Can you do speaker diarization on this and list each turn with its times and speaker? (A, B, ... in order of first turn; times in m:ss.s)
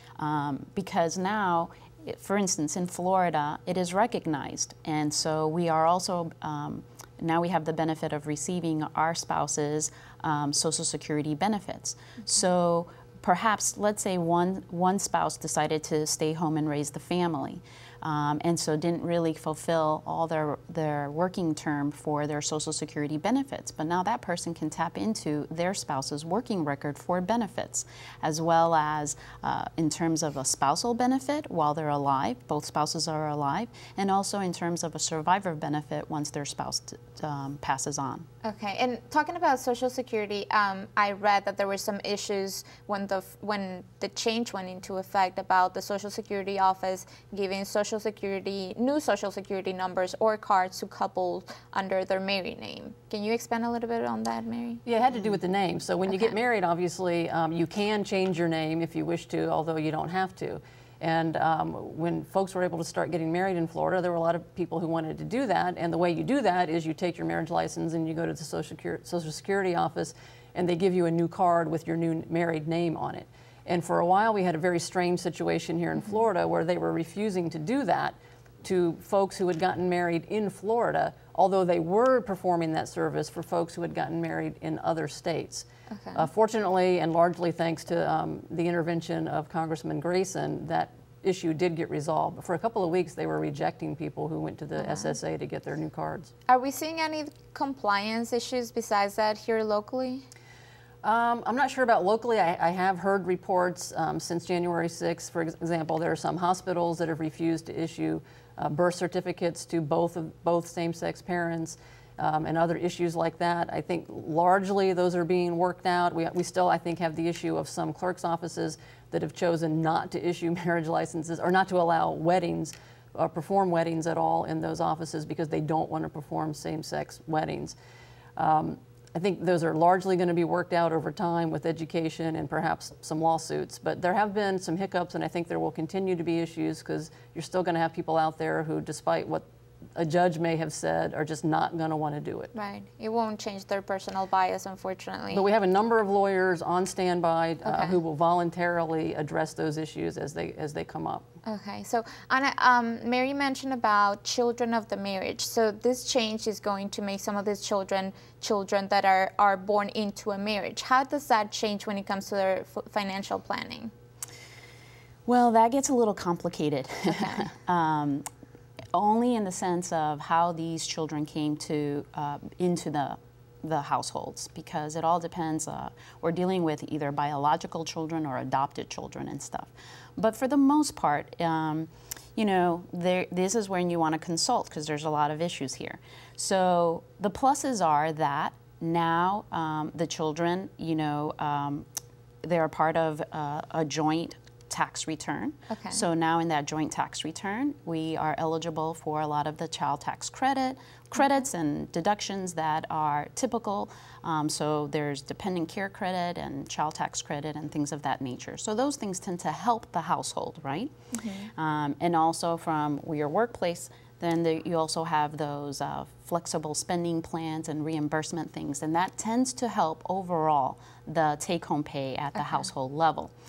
0:00.2-0:38.3 A
0:38.4-0:54.8 B
0:54.8-1:36.3 C
1:26.0-1:26.3 B
1:34.8-1:35.1 B
1:36.5-1:40.2 B
1:41.0-2:07.7 C
2:08.4-2:19.4 C
2:19.9-2:22.5 C
2:22.5-2:25.4 B
2:25.3-2:31.2 C
2:27.6-2:28.0 B
2:31.4-2:43.9 B
2:45.2-2:48.2 A
2:48.9-3:11.8 A
3:12.4-3:30.9 A
3:15.7-3:16.0 B
3:31.1-3:31.5 B
3:31.5-3:43.3 A